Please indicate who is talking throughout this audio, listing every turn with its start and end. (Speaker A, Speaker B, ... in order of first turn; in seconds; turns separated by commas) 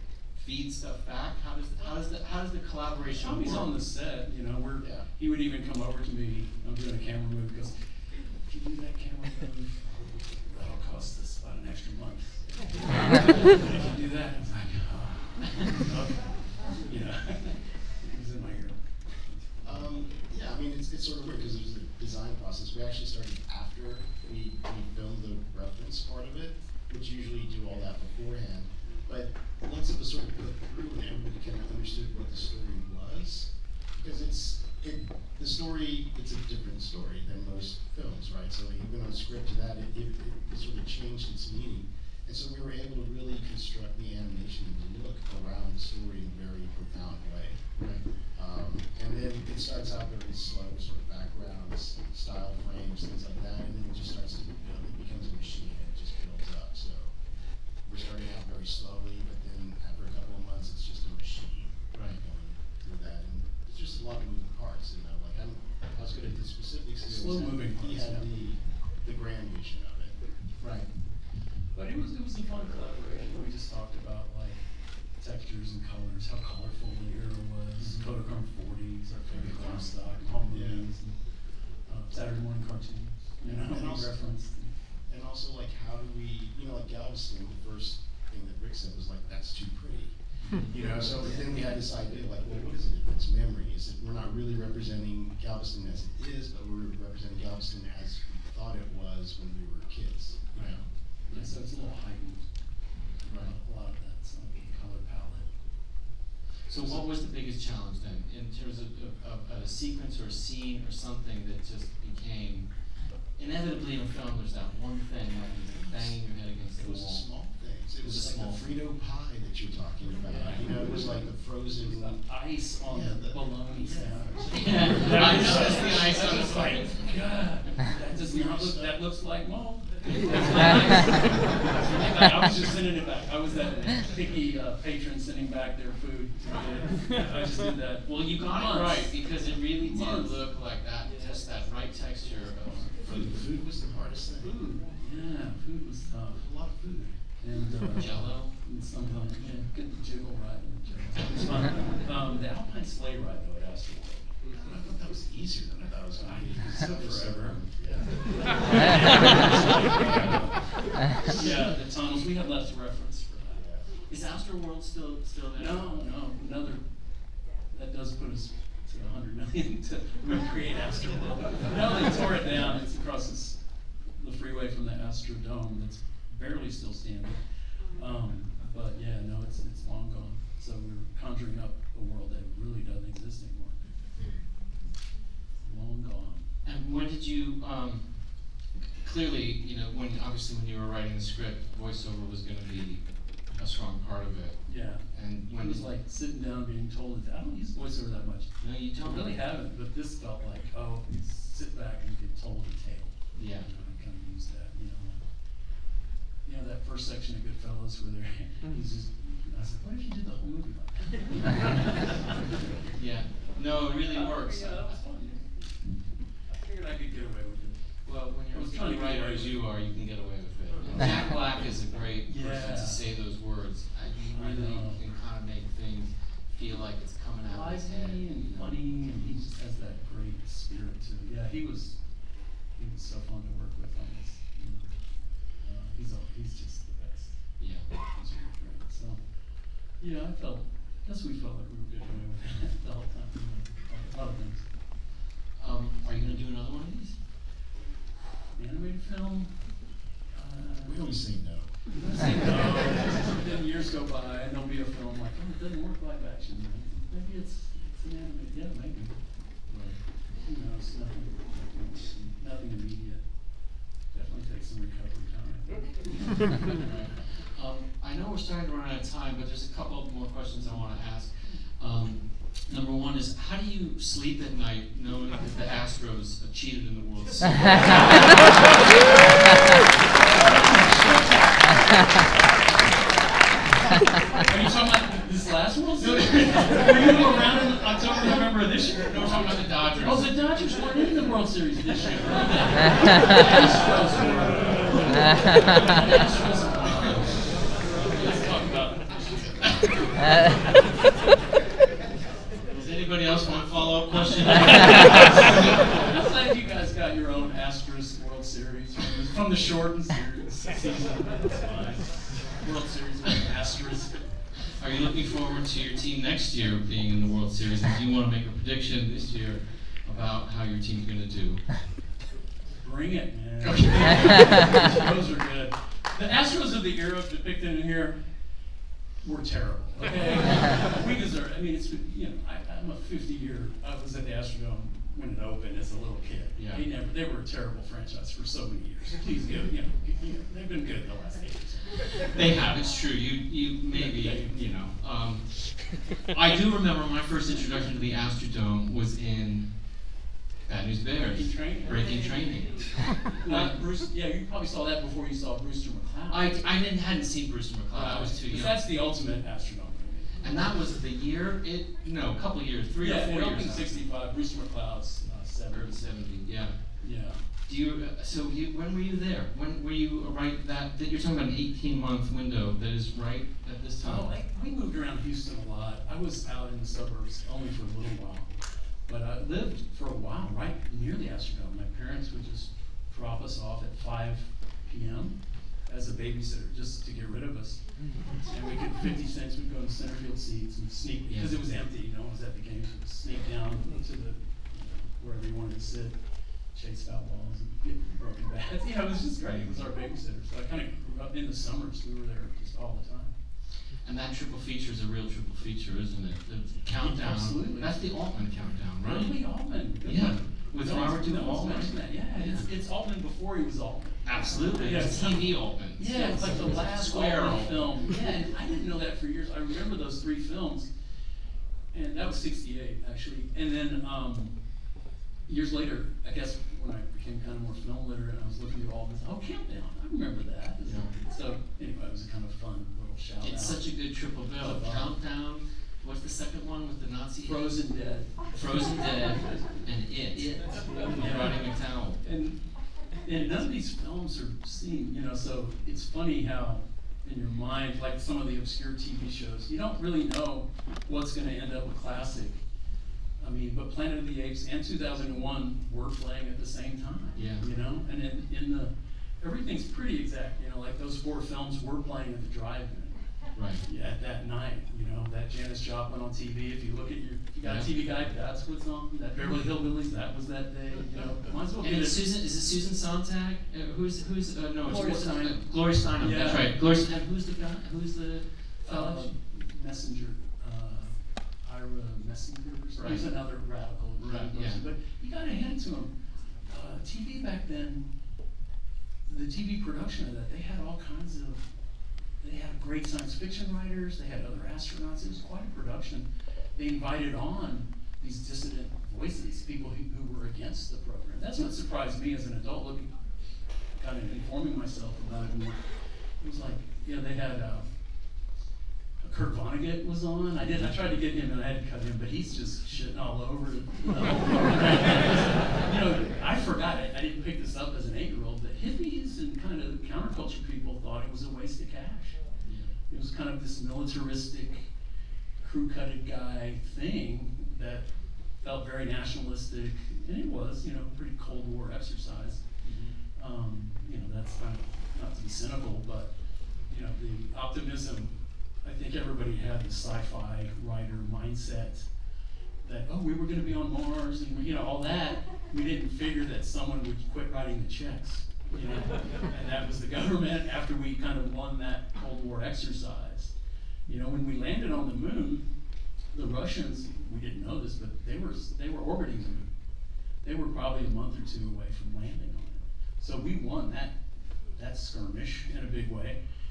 Speaker A: 0.3-3.7, Speaker B: 3.1-19.6, Speaker C: 4.8-5.0, Speaker C: 19.6-57.2, Speaker C: 57.8-70.8, Speaker A: 61.9-62.2, Speaker B: 67.0-68.2, Speaker A: 70.6-70.8, Speaker B: 71.7-81.1, Speaker A: 77.8-78.1, Speaker A: 79.3-79.8, Speaker C: 79.5-79.8, Speaker C: 80.5-80.9, Speaker B: 81.8-84.7, Speaker C: 83.5-84.2, Speaker C: 85.1-100.9, Speaker A: 100.5-101.5, Speaker B: 101.3-105.5, Speaker A: 103.3-103.5, Speaker A: 106.7-117.2, Speaker C: 115.6-116.2, Speaker C: 116.7-122.2, Speaker A: 118.0-118.6, Speaker B: 120.2-121.0, Speaker B: 121.7-139.1, Speaker C: 122.8-126.1, Speaker A: 124.5-127.0, Speaker C: 128.3-128.9, Speaker A: 138.1-143.4, Speaker B: 139.8-140.4, Speaker C: 143.1-144.6, Speaker B: 144.4-146.5, Speaker C: 146.4-147.1, Speaker B: 147.4-154.4, Speaker A: 148.0-148.5, Speaker C: 154.5-158.2, Speaker B: 156.2-163.7, Speaker C: 159.8-160.6, Speaker C: 163.6-163.8, Speaker A: 164.1-166.1, Speaker B: 165.5-166.8, Speaker B: 167.7-183.8, Speaker B: 185.6-186.4, Speaker A: 186.6-195.8, Speaker B: 194.7-205.6, Speaker A: 198.6-199.3, Speaker A: 203.3-203.7, Speaker B: 206.4-212.7, Speaker A: 212.9-215.0, Speaker B: 214.1-219.6, Speaker A: 218.0-228.7, Speaker B: 222.2-223.0, Speaker B: 224.3-225.0, Speaker B: 227.4-244.7, Speaker A: 237.6-237.9, Speaker A: 245.6-247.2, Speaker B: 246.2-246.4, Speaker B: 248.5-251.3, Speaker C: 250.8-251.9, Speaker B: 251.9-259.7, Speaker A: 259.7-260.0, Speaker B: 260.4-266.9, Speaker A: 266.8-279.0, Speaker B: 270.5-270.8, Speaker B: 280.1-282.0, Speaker B: 284.4-300.5, Speaker A: 286.0-287.4, Speaker A: 289.1-290.4, Speaker A: 302.7-305.7, Speaker B: 304.4-314.2, Speaker A: 314.7-321.8, Speaker B: 322.8-328.3, Speaker A: 323.6-324.6, Speaker B: 329.2-342.6, Speaker A: 336.6-336.8, Speaker A: 342.3-349.8, Speaker B: 343.9-344.6, Speaker B: 347.5-348.0, Speaker A: 350.6-352.9, Speaker B: 351.3-352.4, Speaker B: 353.4-356.5, Speaker A: 353.4-353.7, Speaker A: 356.3-358.8, Speaker B: 357.9-360.7, Speaker A: 360.4-364.0, Speaker B: 363.0-366.1, Speaker A: 365.7-366.9, Speaker B: 367.0-367.5, Speaker A: 367.6-374.3, Speaker B: 374.0-396.2, Speaker A: 391.3-391.5, Speaker B: 396.7-403.4, Speaker A: 404.0-409.4, Speaker B: 407.0-407.9, Speaker B: 409.0-420.9, Speaker A: 410.0-412.6, Speaker A: 414.2-417.9, Speaker B: 421.9-424.6, Speaker B: 425.4-433.8, Speaker A: 430.8-431.1, Speaker A: 433.4-437.9, Speaker B: 434.6-435.1, Speaker B: 437.4-438.6, Speaker A: 438.5-442.2, Speaker B: 440.8-452.6, Speaker B: 453.4-463.2, Speaker A: 457.4-457.6, Speaker A: 463.5-463.8, Speaker B: 463.8-472.2, Speaker A: 471.8-479.3, Speaker B: 474.8-476.7, Speaker B: 478.8-488.1, Speaker A: 483.0-483.6, Speaker A: 484.2-484.8, Speaker B: 489.2-491.7, Speaker B: 492.4-503.2, Speaker B: 503.9-505.8, Speaker B: 506.4-507.9, Speaker B: 509.2-522.4, Speaker A: 522.6-522.9, Speaker B: 523.1-524.9, Speaker B: 525.6-528.1, Speaker B: 528.6-532.6, Speaker A: 532.8-533.2, Speaker B: 533.4-536.3, Speaker B: 536.9-542.1, Speaker B: 542.8-553.5, Speaker B: 554.1-555.7, Speaker B: 556.3-559.7, Speaker B: 560.4-564.2, Speaker B: 564.7-566.4